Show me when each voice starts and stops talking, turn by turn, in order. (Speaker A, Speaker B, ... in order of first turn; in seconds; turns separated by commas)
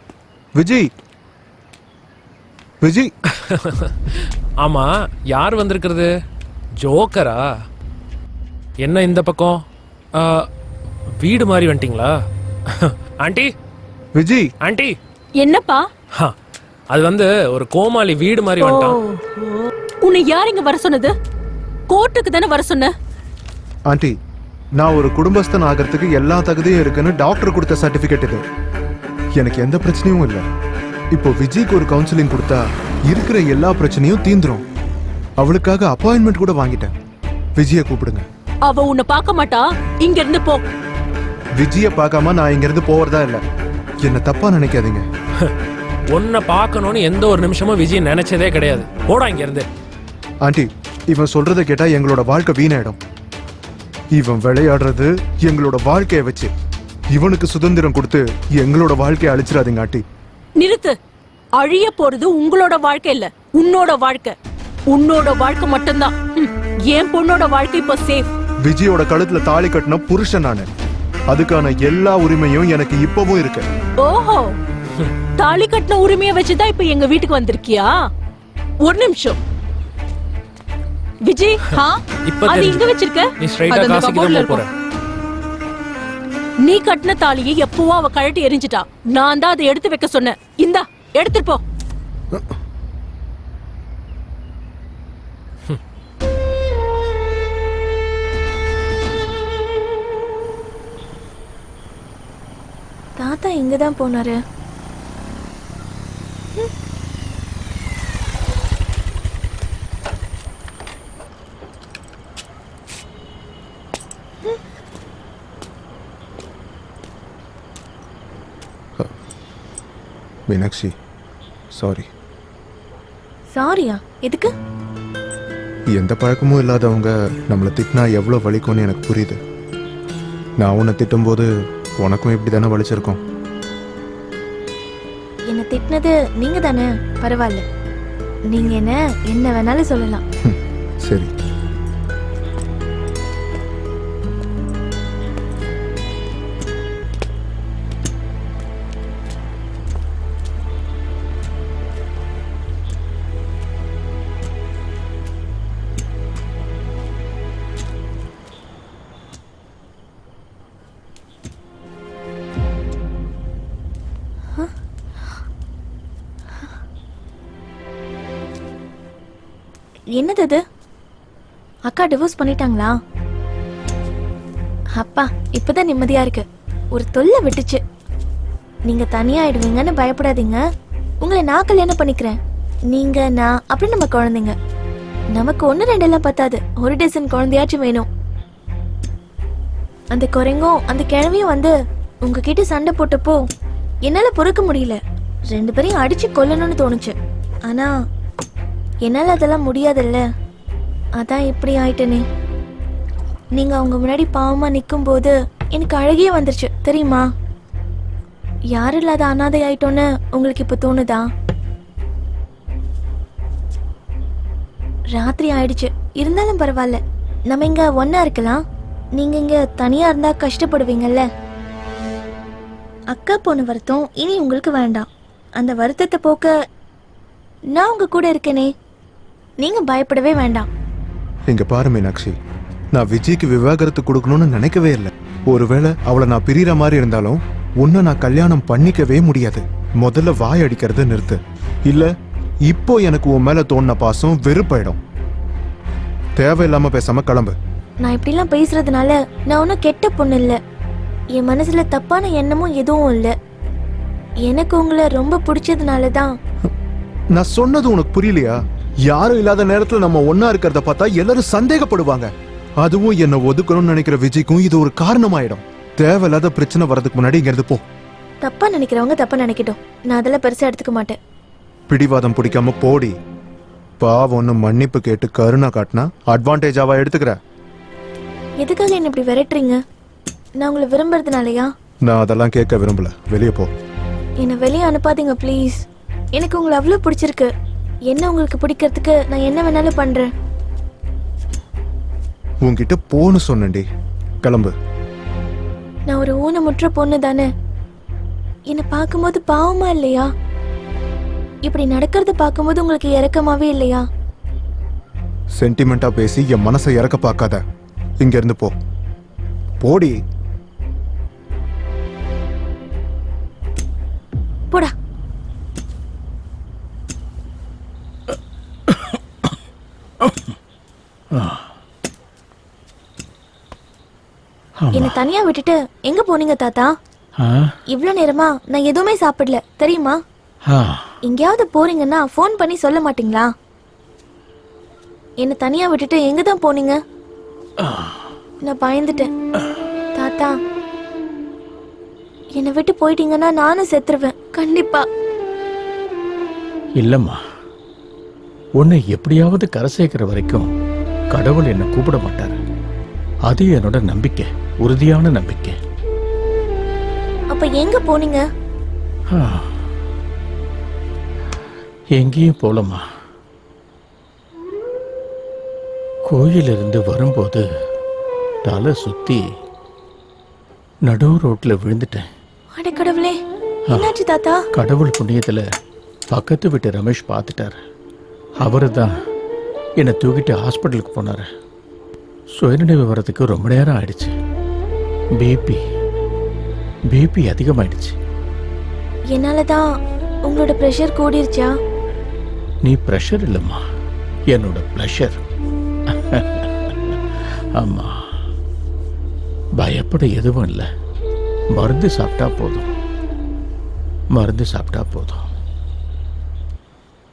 Speaker A: 0.6-0.9, Speaker A: 2.8-3.1, Speaker B: 3.4-6.1, Speaker B: 6.8-7.4, Speaker B: 8.8-9.6, Speaker B: 10.2-10.5, Speaker B: 11.2-12.1, Speaker B: 12.7-13.5, Speaker A: 14.2-14.5, Speaker B: 14.6-14.9, Speaker C: 15.4-15.8, Speaker B: 16.9-19.0, Speaker C: 18.6-21.1, Speaker C: 21.9-22.9, Speaker A: 23.9-24.1, Speaker A: 24.8-28.4, Speaker A: 29.4-30.4, Speaker A: 31.1-34.6, Speaker A: 35.4-36.9, Speaker A: 37.6-38.2, Speaker C: 38.7-40.6, Speaker A: 41.6-43.4, Speaker A: 44.0-45.0, Speaker B: 46.1-49.7, Speaker A: 50.4-53.0, Speaker A: 54.1-56.5, Speaker A: 57.1-60.0, Speaker C: 60.6-60.9, Speaker C: 61.6-64.3, Speaker C: 64.9-68.2, Speaker A: 68.6-70.7, Speaker A: 71.3-73.7, Speaker C: 74.0-74.5, Speaker C: 75.4-77.9, Speaker C: 78.8-79.4, Speaker C: 81.2-84.6, Speaker B: 82.2-84.7, Speaker C: 86.7-91.6, Speaker D: 103.2-104.4, Speaker A: 120.5-120.9, Speaker A: 121.8-122.1, Speaker D: 123.5-124.5, Speaker A: 126.0-129.4, Speaker A: 130.6-131.5, Speaker A: 132.0-133.2, Speaker D: 135.5-137.6, Speaker D: 138.5-140.2, Speaker A: 140.5-141.3, Speaker D: 170.2-170.6, Speaker D: 171.9-172.9, Speaker D: 175.0-176.4, Speaker D: 176.9-177.8, Speaker D: 178.9-180.6, Speaker D: 181.2-182.4, Speaker D: 182.9-184.5, Speaker D: 185.3-188.1, Speaker D: 190.1-191.7, Speaker D: 192.2-193.4, Speaker D: 194.1-195.0, Speaker D: 195.5-197.1, Speaker D: 199.1-200.2, Speaker D: 201.2-202.2, Speaker D: 203.6-207.2, Speaker D: 208.8-211.2, Speaker D: 215.1-217.0, Speaker D: 217.5-218.6, Speaker D: 219.2-221.2, Speaker D: 223.1-226.5, Speaker D: 227.7-228.7, Speaker D: 229.6-230.7, Speaker A: 231.5-232.4, Speaker A: 232.9-242.1, Speaker A: 242.7-245.0, Speaker A: 246.4-247.5, Speaker D: 248.0-250.6, Speaker D: 251.3-253.3, Speaker D: 254.4-256.3, Speaker A: 257.3-258.6, Speaker A: 259.1-262.3, Speaker A: 262.8-267.8, Speaker D: 268.4-271.1, Speaker A: 271.9-273.1, Speaker A: 274.0-277.4, Speaker D: 278.6-279.8, Speaker D: 280.6-281.7, Speaker A: 282.0-283.7, Speaker D: 284.4-285.8, Speaker D: 286.3-287.5, Speaker D: 288.1-290.3, Speaker A: 292.6-293.8, Speaker A: 294.4-294.7, Speaker D: 296.1-297.5, Speaker D: 298.7-300.3, Speaker D: 301.6-304.0, Speaker A: 305.6-307.6, Speaker A: 308.2-308.8, Speaker A: 309.8-310.2, Speaker E: 318.9-319.1, Speaker E: 321.3-321.7, Speaker E: 324.8-325.2, Speaker D: 324.9-326.9, Speaker E: 327.4-327.7, Speaker D: 327.9-330.2, Speaker E: 330.7-331.1, Speaker D: 331.2-333.5, Speaker D: 335.4-337.0, Speaker E: 337.8-338.2, Speaker D: 338.6-339.3, Speaker D: 340.1-340.5, Speaker D: 342.6-345.0, Speaker E: 347.0-347.4, Speaker E: 348.8-350.7, Speaker E: 351.3-352.6, Speaker E: 353.5-355.8, Speaker D: 357.5-358.4, Speaker E: 359.3-359.8, Speaker E: 362.1-363.0, Speaker E: 366.3-367.6, Speaker E: 368.6-369.4, Speaker E: 371.1-372.2, Speaker D: 372.8-373.4, Speaker D: 373.9-374.6, Speaker E: 374.8-375.6, Speaker E: 376.3-377.8, Speaker E: 378.6-379.1, Speaker E: 380.0-381.5, Speaker E: 382.6-384.3, Speaker E: 385.4-385.8, Speaker E: 387.1-388.1, Speaker D: 389.3-389.8, Speaker D: 390.5-391.7, Speaker E: 392.9-393.8, Speaker E: 394.5-395.4, Speaker E: 396.1-397.2, Speaker E: 397.8-398.1, Speaker E: 399.8-400.8, Speaker E: 401.8-402.9, Speaker E: 404.3-405.5